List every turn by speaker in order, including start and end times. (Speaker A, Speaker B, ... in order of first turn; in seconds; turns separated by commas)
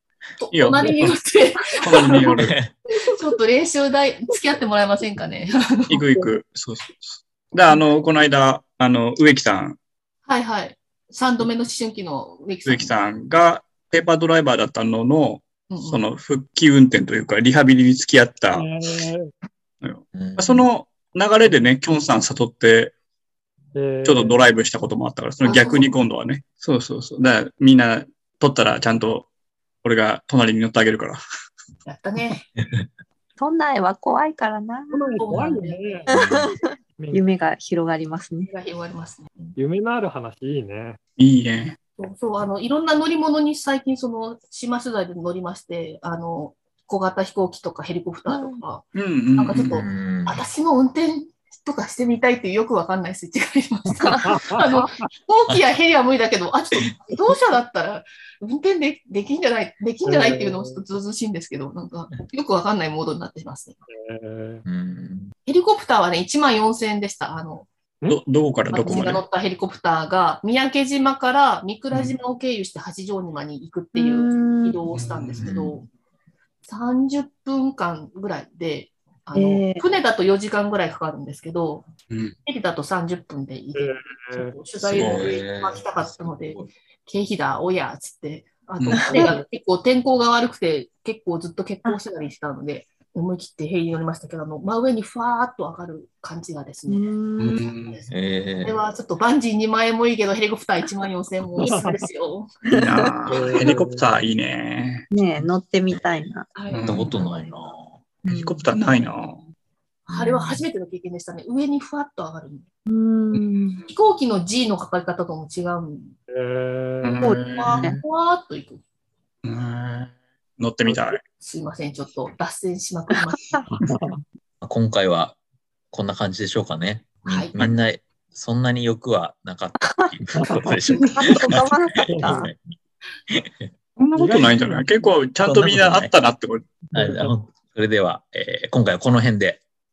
Speaker A: 0.4-6.0, Speaker B: 0.5-1.2, Speaker B: 1.8-2.5, Speaker C: 2.3-2.7, Speaker B: 5.9-9.8, Speaker A: 10.2-12.9, Speaker B: 12.6-18.7, Speaker A: 15.7-16.0, Speaker D: 18.5-19.3, Speaker B: 19.8-22.9, Speaker C: 20.1-20.7, Speaker D: 23.7-24.5, Speaker B: 24.0-29.3, Speaker A: 25.4-26.0, Speaker B: 29.8-31.2, Speaker A: 31.8-32.4, Speaker E: 33.4-35.2, Speaker D: 34.9-36.1, Speaker A: 35.2-36.1, Speaker E: 36.1-38.5, Speaker C: 36.1-36.5, Speaker D: 37.0-37.2, Speaker A: 38.5-39.5, Speaker D: 39.5-41.0, Speaker B: 41.2-41.8, Speaker A: 42.0-48.8, Speaker E: 48.3-48.6, Speaker B: 48.9-49.8, Speaker A: 49.4-63.8, Speaker C: 49.8-50.4, Speaker D: 54.2-55.1, Speaker D: 60.0-60.8, Speaker D: 63.9-64.6, Speaker C: 64.7-65.3, Speaker A: 65.5-67.7, Speaker B: 68.1-69.2, Speaker A: 68.7-75.9, Speaker E: 73.9-74.8, Speaker B: 74.9-75.5, Speaker C: 75.4-75.8, Speaker A: 76.7-81.9, Speaker E: 79.3-79.8, Speaker B: 82.1-82.3, Speaker A: 82.5-97.1, Speaker D: 83.7-84.5, Speaker B: 84.8-85.4, Speaker C: 84.9-86.7, Speaker B: 88.8-89.2, Speaker E: 88.9-89.3, Speaker E: 96.9-97.7, Speaker B: 97.4-98.0, Speaker A: 97.7-98.1, Speaker C: 98.1-98.8, Speaker A: 98.6-102.6, Speaker D: 101.6-102.1, Speaker E: 102.6-103.2, Speaker B: 102.7-105.0, Speaker D: 103.3-104.1, Speaker A: 103.3-103.6, Speaker E: 105.1-106.5, Speaker A: 106.5-107.5, Speaker B: 106.7-107.1, Speaker C: 106.8-107.9, Speaker B: 108.2-109.4, Speaker A: 110.1-112.7, Speaker C: 110.1-110.6, Speaker E: 112.9-113.8, Speaker B: 113.3-113.8, Speaker A: 113.8-116.1, Speaker D: 116.3-117.3, Speaker B: 117.0-118.0, Speaker A: 117.2-118.8, Speaker E: 117.7-118.0, Speaker B: 119.4-121.2, Speaker D: 120.9-121.2, Speaker A: 121.4-123.5, Speaker E: 123.1-123.6, Speaker D: 123.7-124.2, Speaker C: 124.6-125.3, Speaker C: 125.9-132.6, Speaker A: 127.2-127.5, Speaker D: 130.3-131.0, Speaker E: 131.2-132.4, Speaker D: 132.1-132.5, Speaker C: 133.3-133.7, Speaker B: 134.0-136.6, Speaker D: 134.1-135.0, Speaker C: 135.4-136.1, Speaker D: 136.9-137.4, Speaker C: 136.9-139.6